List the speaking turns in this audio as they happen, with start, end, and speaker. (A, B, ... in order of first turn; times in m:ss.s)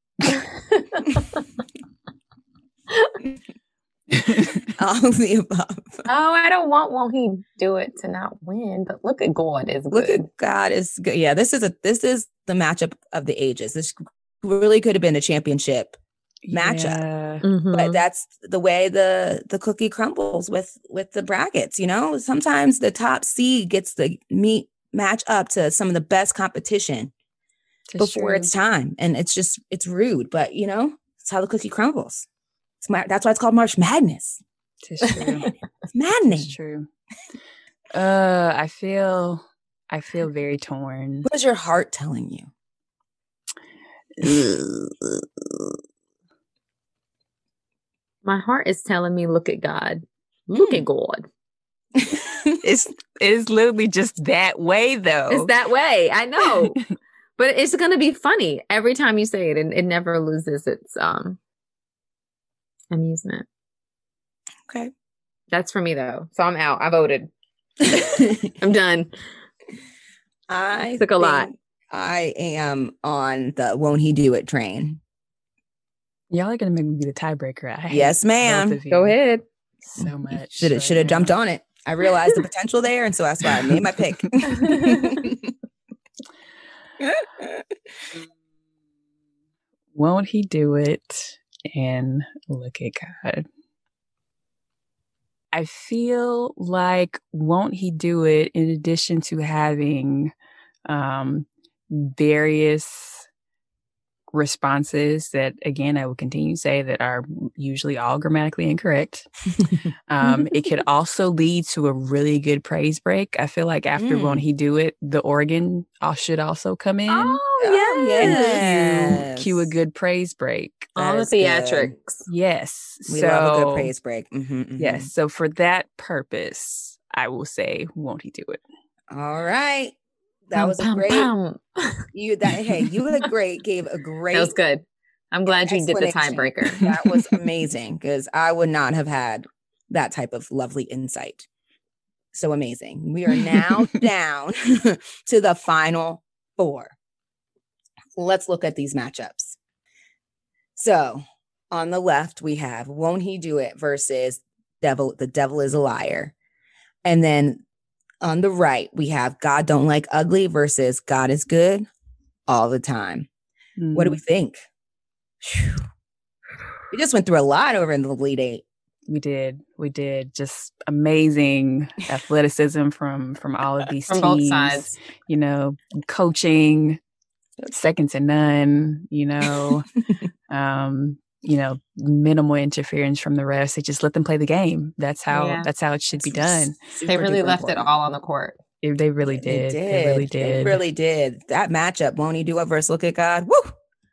0:00.3-0:01.4 A
0:04.1-0:04.7 B
0:04.8-0:06.0 C
0:06.1-0:10.3 A
0:09.9-0:16.0 C
0:16.4-0:17.4 B
0:16.5-0:17.0 C
0:17.4-0:18.0 A
0:17.7-0:27.1 C
0:27.9-0:28.5 B
0:28.0-0:32.3 C
0:32.8-0:34.4 C
0:34.8-0:35.5 B
0:35.0-0:35.5 A
0:35.9-0:36.5 C
0:36.3-0:36.9 B
0:37.9-0:41.3 B
0:41.2-0:42.5 C
0:44.2-0:45.2 B
0:48.2-0:51.3 A
0:50.6-0:50.8 C
0:52.0-0:52.6 C
0:52.6-0:55.5 B
0:55.3-0:56.8 A
0:57.4-1:01.4 A
1:02.9-1:03.5 A
1:05.5-1:07.3 A
1:07.9-1:09.1 A
1:07.9-1:08.5 C
1:10.5-1:15.0 C
1:11.0-1:11.5 A
1:16.3-1:19.2 B
1:17.9-1:18.8 C
1:18.9-1:19.4 A
1:19.8-1:21.3 B
1:20.0-1:25.5 C
1:24.5-1:25.2 A
1:27.0-1:27.7 C
1:29.9-1:33.5 B
1:35.5-1:40.3 B
1:40.9-1:43.3 B
1:44.3-1:49.3 B
1:50.1-1:57.4 B
1:50.3-1:50.7 C
1:54.0-1:54.5 C
1:57.1-1:58.6 A
1:57.6-1:59.7 C
1:58.2-2:00.9 B
2:01.0-2:02.3 A
2:01.0-2:01.9 C
2:02.3-2:03.9 B
2:03.1-2:05.1 C
2:04.8-2:08.6 B
2:09.1-2:10.0 C
2:10.5-2:11.3 C
2:10.6-2:12.0 A
2:12.1-2:14.5 C
2:14.3-2:17.0 A
2:15.5-2:21.5 C
2:22.3-2:27.0 C
2:28.2-2:29.6 C
2:30.8-2:36.3 C
2:37.0-2:37.6 C
2:38.2-2:41.9 C
2:42.5-2:43.3 C
2:43.8-2:44.2 B
2:43.9-2:44.6 C
2:45.4-2:45.8 C
2:46.9-2:48.6 C
2:49.1-2:57.0 B
2:54.1-2:55.0 A
2:57.7-2:59.9 B
2:59.5-2:59.8 C
3:00.5-3:06.8 B
3:05.3-3:05.7 A
3:06.2-3:07.9 C
3:07.1-3:08.6 A
3:08.8-3:10.8 B
3:09.2-3:13.7 C